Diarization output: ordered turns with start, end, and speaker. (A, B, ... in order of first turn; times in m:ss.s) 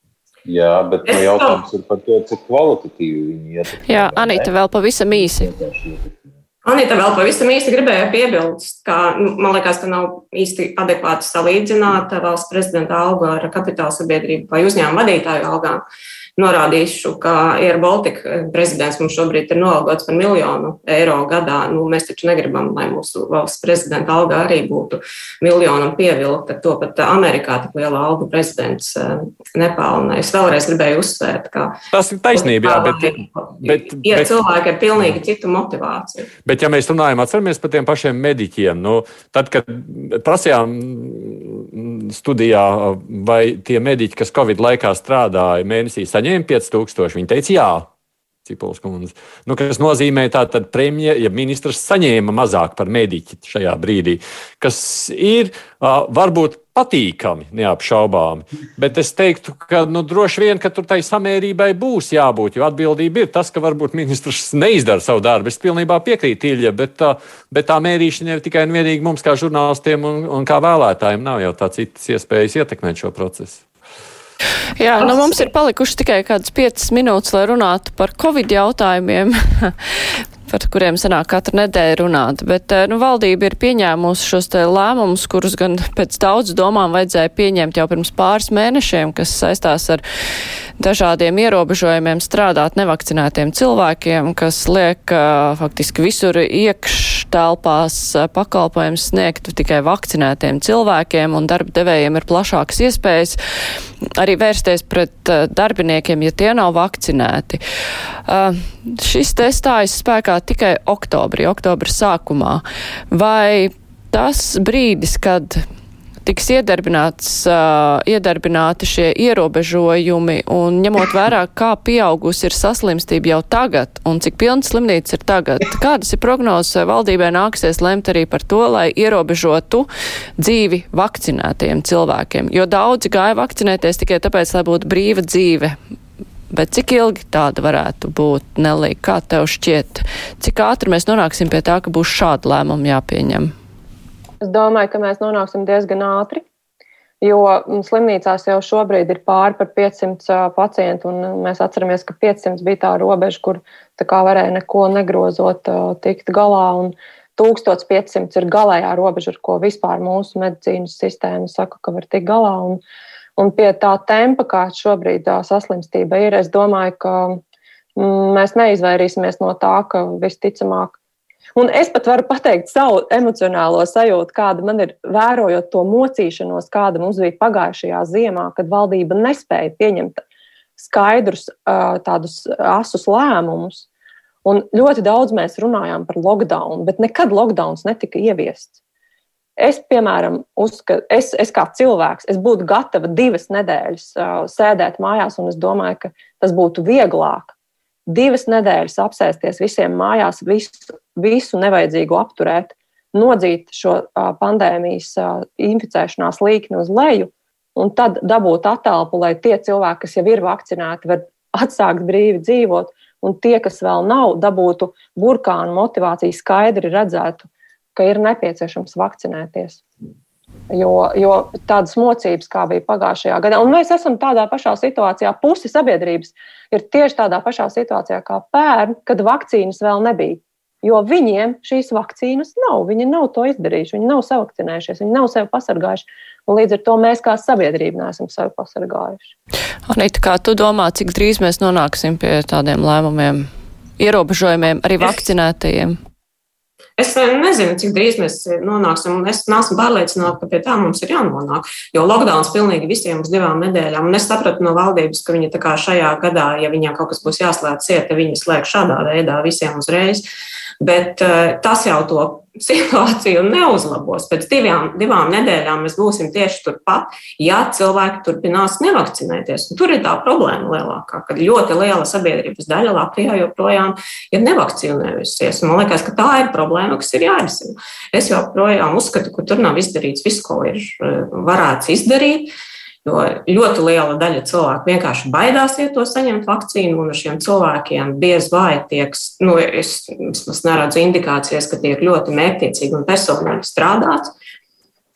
0:00.4-0:04.5 A
0:01.1-0:01.6 B
0:03.8-0:05.5 C
0:05.1-0:06.4 A
0:06.6-0:15.8 B
0:16.4-0:31.8 B
0:31.9-0:34.3 D
0:32.3-0:36.3 B
0:36.4-0:47.9 D
0:48.4-1:13.6 D
1:14.8-1:19.7 C
1:20.5-1:30.0 C
1:30.8-1:43.4 C
1:44.2-1:47.6 C
1:48.2-1:55.6 C
1:56.2-2:15.7 C
2:16.5-2:23.5 C
2:24.4-2:26.4 E
2:27.2-2:42.8 E
2:43.4-2:47.4 E
2:48.0-2:51.0 E
2:51.6-3:00.2 E
3:00.8-3:03.9 E
3:04.4-3:08.8 E
3:09.6-3:17.5 E
3:18.1-3:39.8 E
3:40.7-3:59.3 E
3:59.9-4:03.5 C
4:04.0-4:06.0 C
4:07.0-4:20.2 B
4:20.8-4:42.5 B
4:43.0-4:54.3 B